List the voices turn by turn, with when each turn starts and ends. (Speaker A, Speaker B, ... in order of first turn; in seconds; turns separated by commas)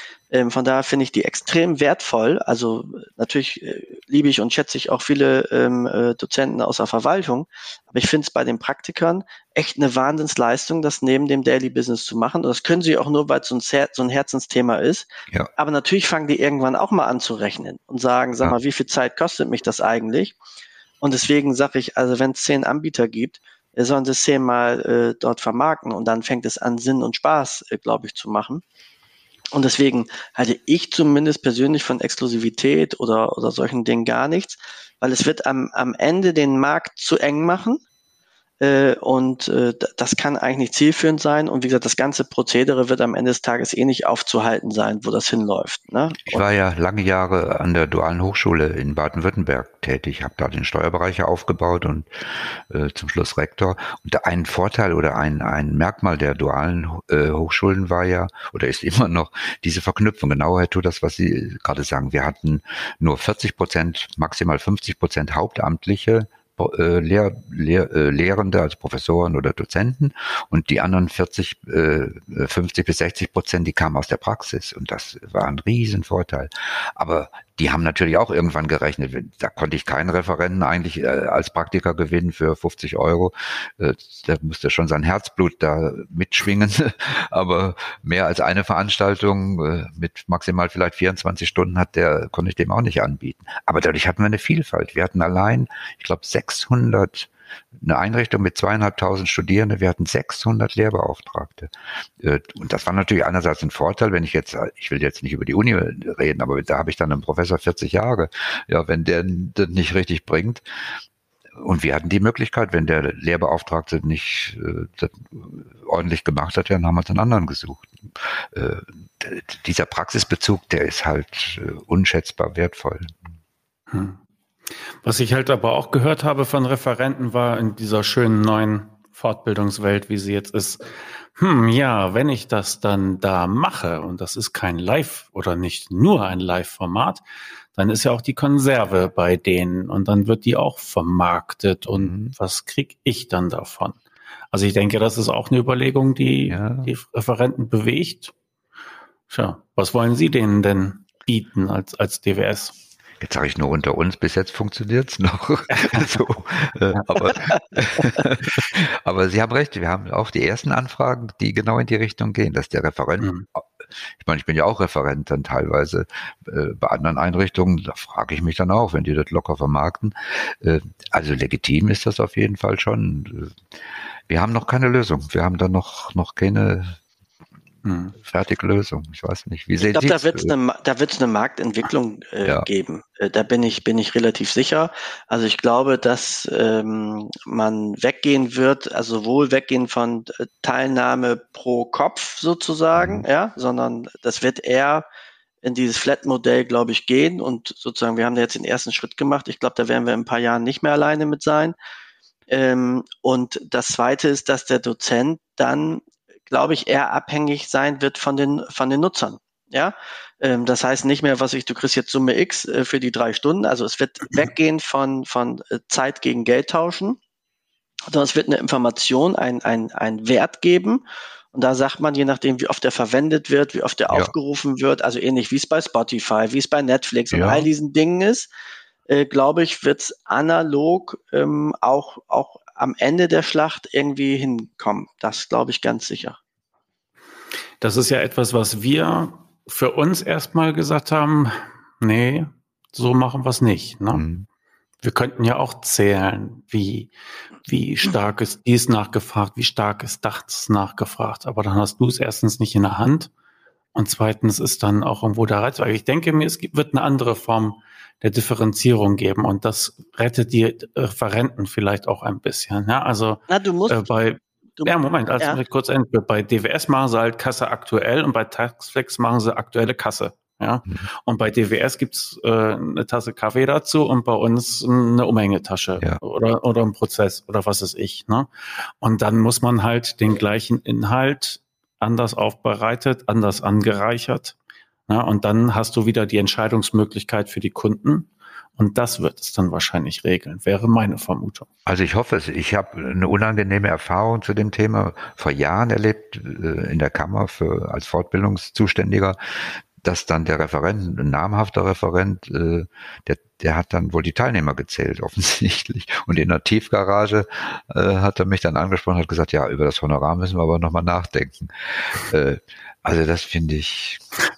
Speaker A: 0.3-20.4, Speaker A: 21.0-28.6, Speaker A: 29.5-37.8, Speaker A: 38.6-46.5, Speaker B: 46.3-110.6, Speaker B: 111.6-123.1, Speaker C: 123.9-124.2, Speaker C: 125.0-137.2, Speaker C: 137.7-144.0, Speaker B: 141.9-142.3, Speaker C: 144.5-148.3, Speaker B: 146.5-146.9, Speaker C: 149.3-152.7, Speaker B: 153.2-163.6, Speaker C: 155.7-156.2, Speaker C: 163.2-163.5, Speaker B: 164.2-173.6, Speaker B: 174.3-177.0, Speaker C: 177.8-178.2, Speaker B: 178.2-180.5, Speaker A: 179.8-195.1, Speaker B: 193.0-193.2, Speaker A: 195.6-201.8, Speaker A: 202.5-217.2, Speaker A: 218.1-228.5, Speaker B: 227.3-227.7, Speaker A: 229.1-236.4, Speaker C: 237.8-244.2, Speaker B: 244.1-244.5, Speaker C: 245.0-247.1, Speaker C: 247.7-253.3, Speaker C: 253.9-278.5, Speaker A: 263.5-264.1, Speaker A: 264.8-265.6, Speaker C: 279.0-284.6, Speaker C: 285.1-291.7, Speaker B: 291.9-314.2